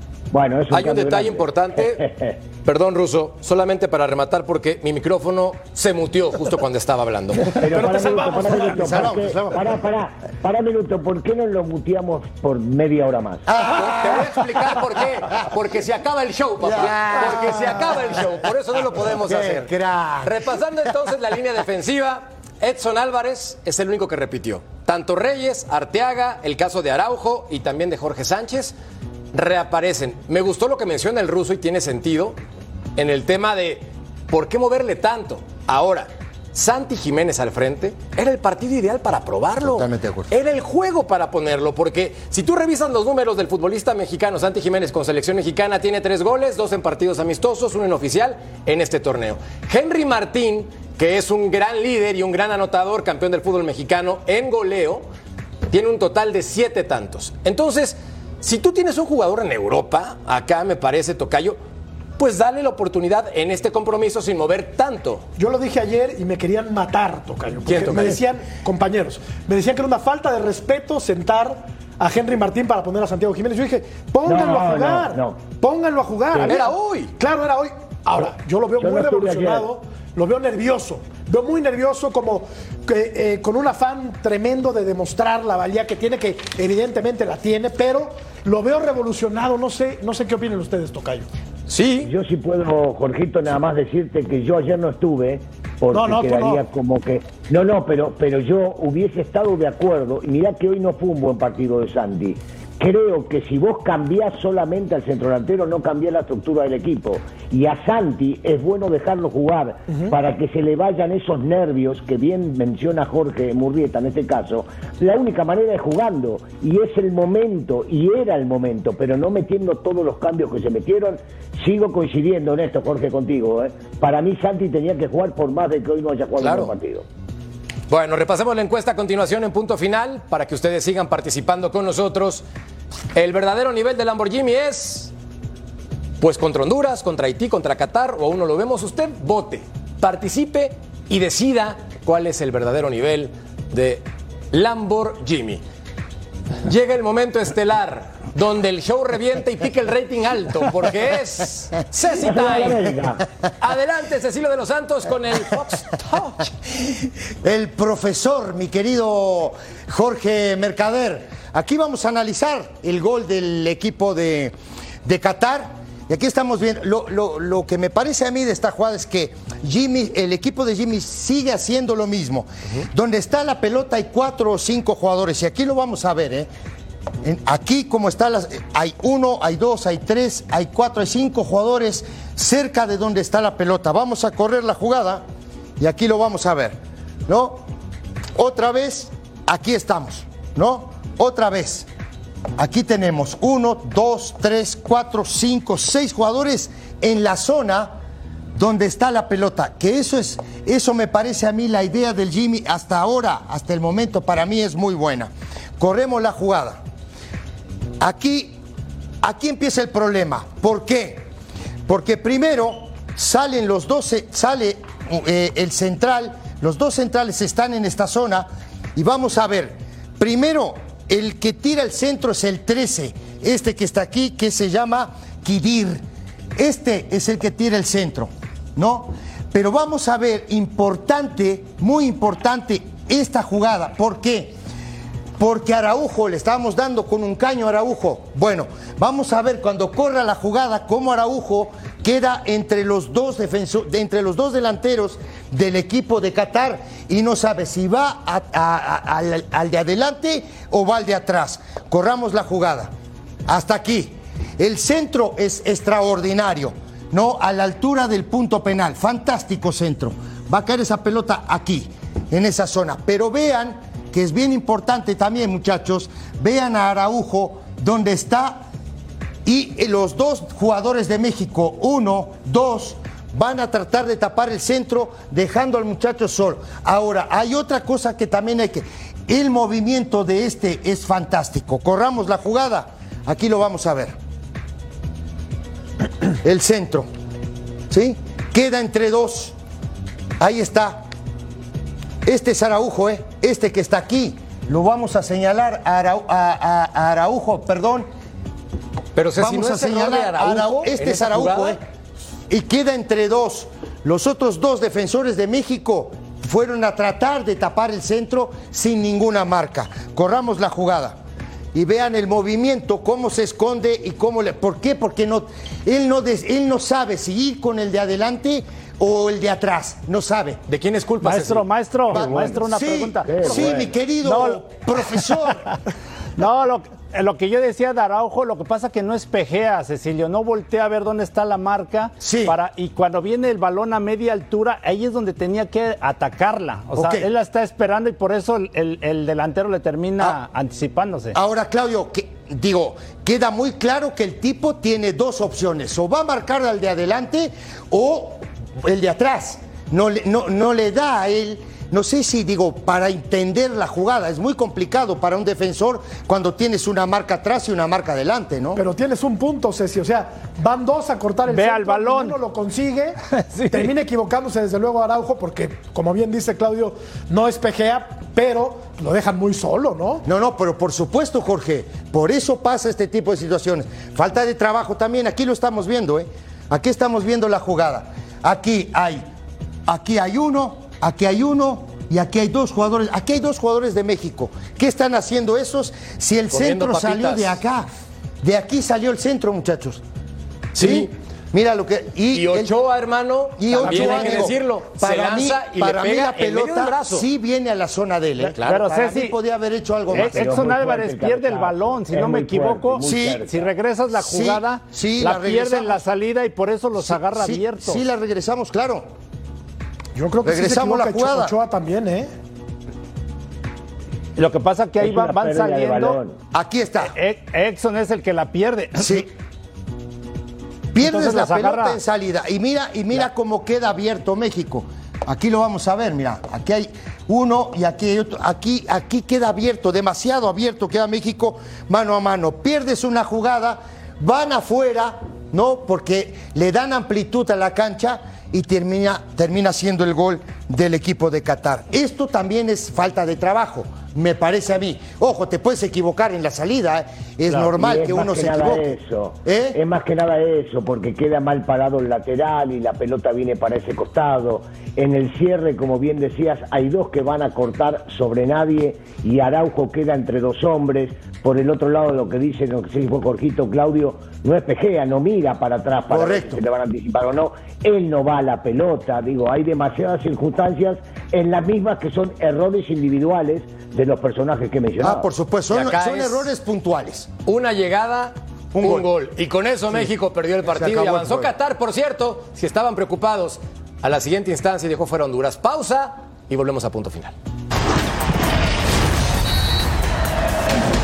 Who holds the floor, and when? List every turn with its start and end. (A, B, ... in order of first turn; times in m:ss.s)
0:00.3-0:02.4 A
0:00.7-0:02.0 B
0:02.6-0:07.6 B
0:07.6-0:13.5 A
0:07.7-0:09.1 C
0:08.5-0:09.8 D
0:13.5-0:14.6 D
0:13.7-0:19.7 B
0:16.6-0:18.4 D
0:19.2-0:20.4 D
0:20.2-0:28.7 B
0:29.3-0:32.4 B
0:33.0-0:55.0 B
0:39.6-0:40.3 D
0:55.7-1:01.6 B
1:02.2-1:05.2 B
1:05.4-1:31.3 C
1:07.6-1:08.2 B
1:14.2-1:15.4 A
1:16.3-1:16.6 A
1:16.4-1:17.1 B
1:18.8-1:19.7 A
1:31.7-1:32.1 B
1:32.0-2:07.0 A
1:35.9-1:36.6 C
2:06.4-2:06.7 B
2:07.9-2:12.4 B
2:13.1-2:15.1 B
2:16.2-2:25.6 B
2:26.6-2:32.9 B
2:32.2-2:33.2 A
2:33.6-2:36.5 B
2:37.4-2:44.5 D
2:45.0-2:56.5 D
2:57.2-3:05.2 D
3:05.8-3:07.6 D
3:08.4-3:11.9 D
3:12.6-3:17.9 D
3:18.6-3:26.8 D
3:28.0-3:28.6 D
3:29.2-3:31.3 D
3:31.9-3:46.0 D
3:46.6-3:54.5 D
3:55.4-4:12.9 D
4:13.5-4:28.6 D
4:29.4-4:44.1 D
4:46.4-4:47.1 D
4:47.9-4:49.5 D
4:50.4-4:51.0 D
4:52.2-4:58.1 D
4:59.1-5:01.8 B
4:59.4-5:01.8 D
5:02.5-5:11.2 D
5:11.7-5:20.6 D
5:20.7-5:21.6 B
5:21.2-5:24.6 E
5:22.1-5:25.7 D
5:23.2-5:23.9 A
5:26.4-5:41.4 E
5:32.2-5:32.5 D
5:37.0-5:37.3 D
5:41.3-5:58.8 D
5:58.7-6:03.2 C
6:01.5-6:02.4 E
6:03.3-6:03.9 E
6:03.7-6:10.2 C
6:10.2-6:19.2 D
6:19.9-6:27.9 D
6:26.5-6:27.6 B
6:28.4-6:30.0 D
6:30.7-6:31.1 B
6:30.7-6:32.7 D
6:32.3-6:37.2 B
6:33.6-6:40.7 D
6:33.8-6:34.5 E
6:38.4-6:39.3 E
6:38.6-6:38.8 B
6:40.1-6:43.7 A
6:40.1-6:48.0 E
6:43.0-6:43.4 D
6:44.1-6:46.0 D
6:47.0-6:49.1 D
6:50.2-6:52.3 C
6:50.4-6:51.6 D
6:54.4-6:56.2 E
6:55.0-6:56.4 A
6:56.5-6:57.1 D
6:57.0-6:59.2 E
6:59.0-6:59.3 D
7:00.9-7:29.8 D
7:01.0-7:02.0 E
7:27.5-7:55.3 A
7:46.1-7:46.6 D
7:55.0-7:57.3 D
7:55.7-7:56.5 B
7:57.4-8:07.3 B
7:58.7-7:59.1 D
8:00.6-8:01.5 D